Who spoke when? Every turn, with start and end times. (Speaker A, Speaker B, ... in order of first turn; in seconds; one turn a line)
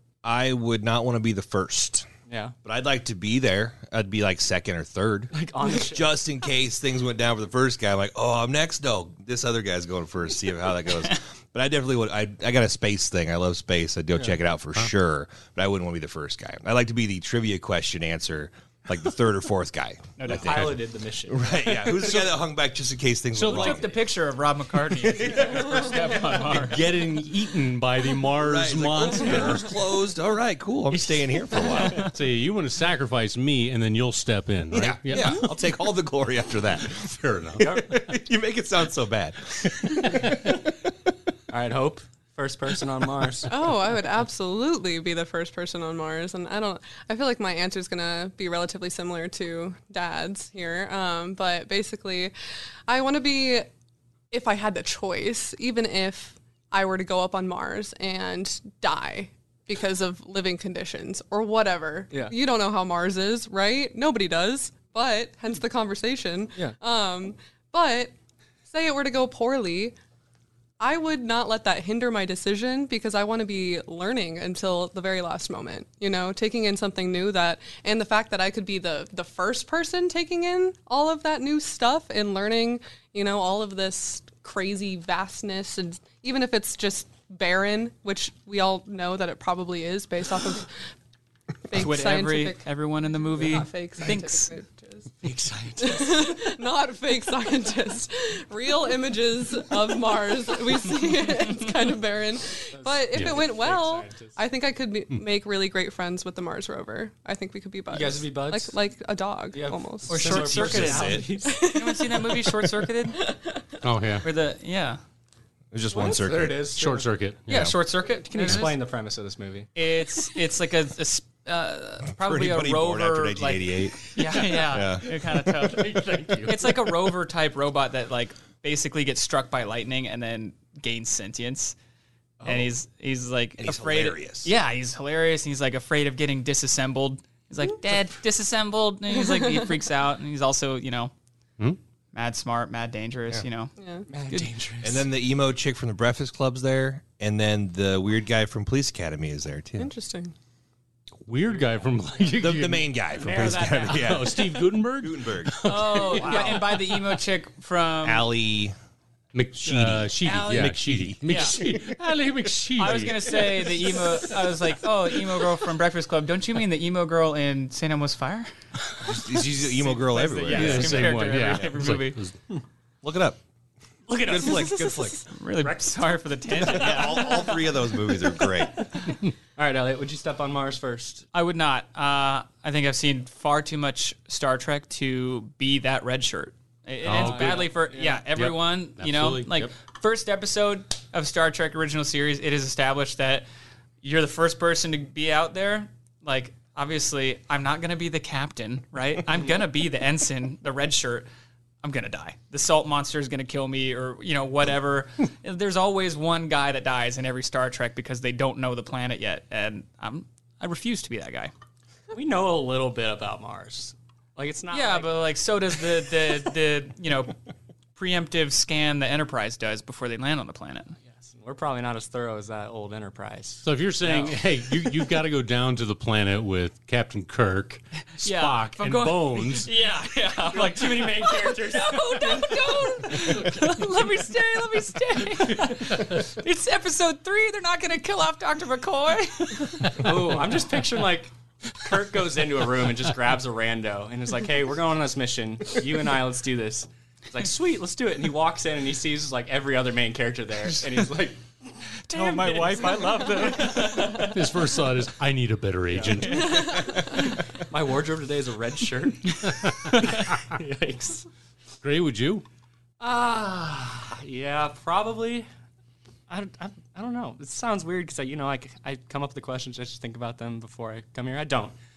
Speaker A: 0.2-2.1
Speaker B: 2.3-2.5
Speaker A: 2.6-23.9
Speaker B: 5.3-6.2
Speaker C: 20.2-20.6
Speaker B: 20.3-22.3
Speaker D: 23.3-23.8
Speaker C: 23.4-26.8
Speaker A: 24.9-25.9
Speaker D: 26.5-29.7
Speaker A: 28.4-32.1
Speaker D: 32.0-35.5
Speaker A: 34.7-40.6
Speaker D: 36.9-37.9
Speaker B: 37.6-37.9
Speaker B: 41.5-43.5
Speaker E: 43.5-52.3
Speaker E: 52.9-53.7
Speaker E: 54.3-68.1
Speaker E: 68.7-69.9
Speaker E: 70.8-90.7
Speaker E: 91.7-92.7
Speaker C: 91.7-94.5
Speaker E: 93.3-95.1
Speaker B: 95.2-96.3
Speaker E: 95.8-110.4
Speaker B: 102.7-104.4
Speaker D: 103.1-103.4
Speaker B: 107.9-108.7
Speaker B: 109.5-111.7
Speaker C: 110.1-113.2
Speaker A: 110.1-111.3
Speaker E: 111.4-113.7
Speaker D: 113.8-114.3
Speaker C: 114.2-115.0
Speaker A: 115.7-116.6
Speaker B: 115.9-117.1
Speaker D: 116.7-117.8
Speaker C: 117.5-118.8
Speaker B: 118.2-119.7
Speaker C: 119.8-131.7
Speaker A: 122.1-125.1
Speaker D: 125.6-126.9
Speaker C: 132.4-141.1
Speaker A: 133.6-134.5
Speaker C: 142.1-143.7
Speaker E: 143.8-144.0
Speaker B: 144.1-145.1
Speaker A: 144.8-149.9
Speaker E: 149.8-150.3
Speaker D: 151.2-157.0
Speaker A: 152.4-156.4
Speaker C: 153.2-154.3
Speaker C: 155.6-158.3
Speaker A: 158.0-158.7
Speaker D: 159.3-163.7
Speaker A: 159.6-161.8
Speaker C: 160.2-160.7
Speaker C: 161.2-161.6
Speaker C: 162.8-168.5
Speaker A: 169.0-171.6
Speaker C: 169.8-172.2
Speaker B: 170.4-170.8
Speaker D: 170.5-172.3
Speaker A: 173.0-173.4
Speaker B: 174.1-174.9
Speaker A: 174.1-175.2
Speaker C: 175.3-177.7
Speaker A: 176.5-178.8
Speaker B: 179.6-181.2
Speaker C: 181.3-193.4
Speaker D: 187.0-187.7
Speaker B: 187.1-188.2
Speaker D: 188.3-189.7
Speaker C: 194.0-201.3
Speaker C: 201.8-211.5
Speaker B: 212.1-215.1
Speaker C: 214.7-217.4
Speaker C: 217.9-221.0
Speaker B: 221.1-224.9
Speaker D: 223.6-229.7
Speaker C: 228.2-240.0
Speaker B: 230.5-232.8
Speaker B: 239.9-251.4
Speaker C: 252.1-254.3
Speaker B: 252.1-254.4
Speaker D: 253.8-256.9
Speaker B: 255.9-256.4
Speaker C: 256.2-257.2
Speaker E: 256.6-257.1
Speaker B: 257.6-261.3
Speaker C: 259.9-260.2
Speaker D: 261.8-262.4
Speaker B: 263.0-265.5
Speaker B: 266.3-271.8